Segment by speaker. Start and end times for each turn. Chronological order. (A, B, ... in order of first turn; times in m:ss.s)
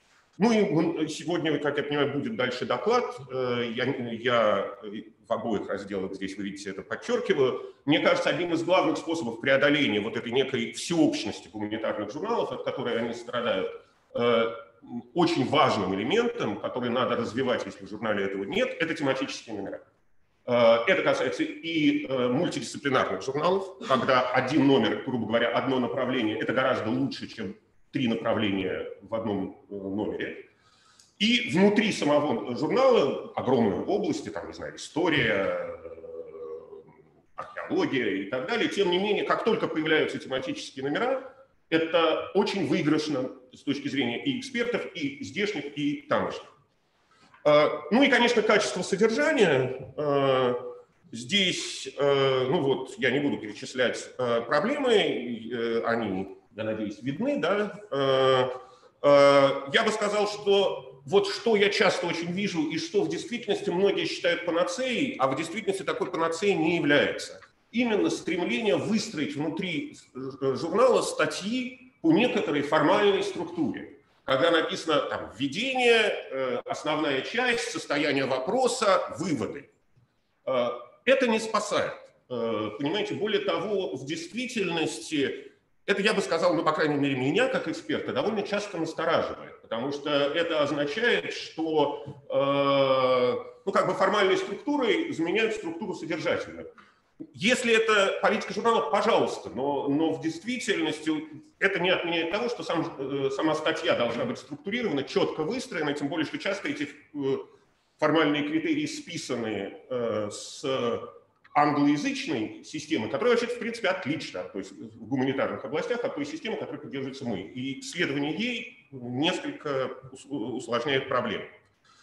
0:00.4-0:19.8 A
0:20.5-0:30.5 A
0:31.2-0:36.8 A
0:37.4-0:46.5 A
0:47.4-1:19.7 A
1:20.4-1:36.7 A
1:37.3-2:01.5 A